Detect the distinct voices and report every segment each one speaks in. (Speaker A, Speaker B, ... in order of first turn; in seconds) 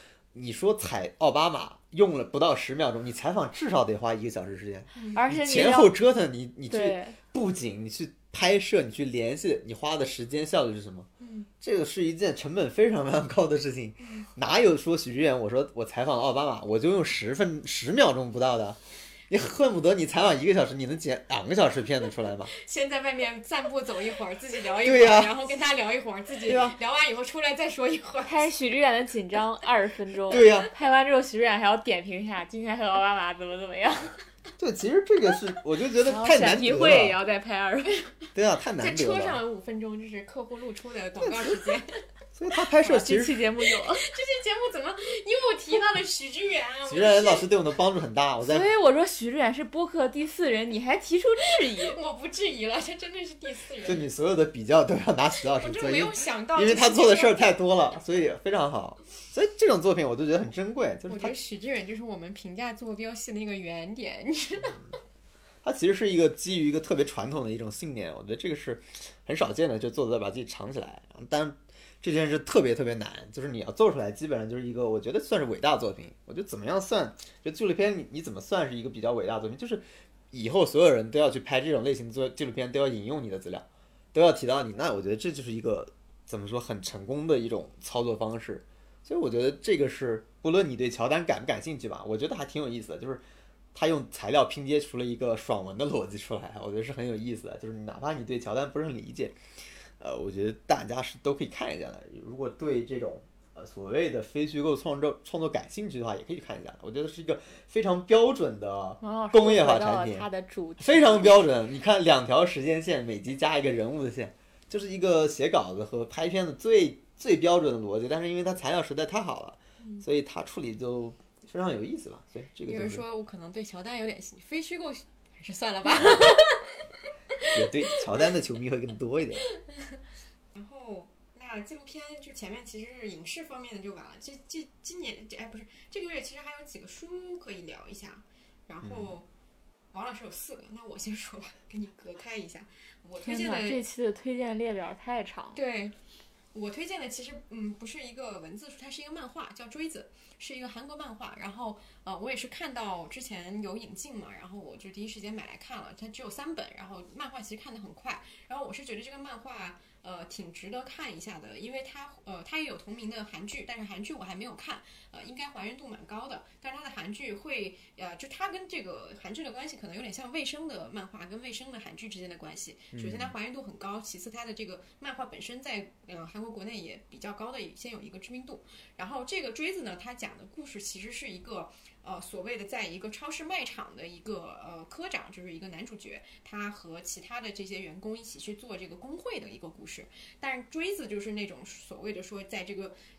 Speaker A: 0.3-11.1, 11.6-22.5, 24.8-25.4, 30.3-30.7, 34.6-37.2, 38.3-39.4, 41.2-41.6, 42.4-43.4, 46.9-48.7, 53.9-61.3, 65.6-93.2, 93.8-99.4, 100.0-110.3, 110.8-123.0, 127.5-129.4, 138.8-139.2, 172.9-173.3
Speaker B: 5.2-5.9, 6.7-7.2, 26.5-26.8, 28.3-34.2, 36.0-38.0, 42.8-44.1, 48.5-52.0, 109.0-111.3, 143.2-145.6
Speaker C: 11.2-11.5, 14.0-14.3, 22.6-28.5, 30.3-30.7, 38.8-42.0, 43.8-47.5, 51.6-54.0, 55.4-57.6, 61.1-64.8, 122.7-126.8, 127.3-128.3, 129.7-130.0, 130.5-139.3, 139.9-143.8, 145.6-145.9, 146.5-192.9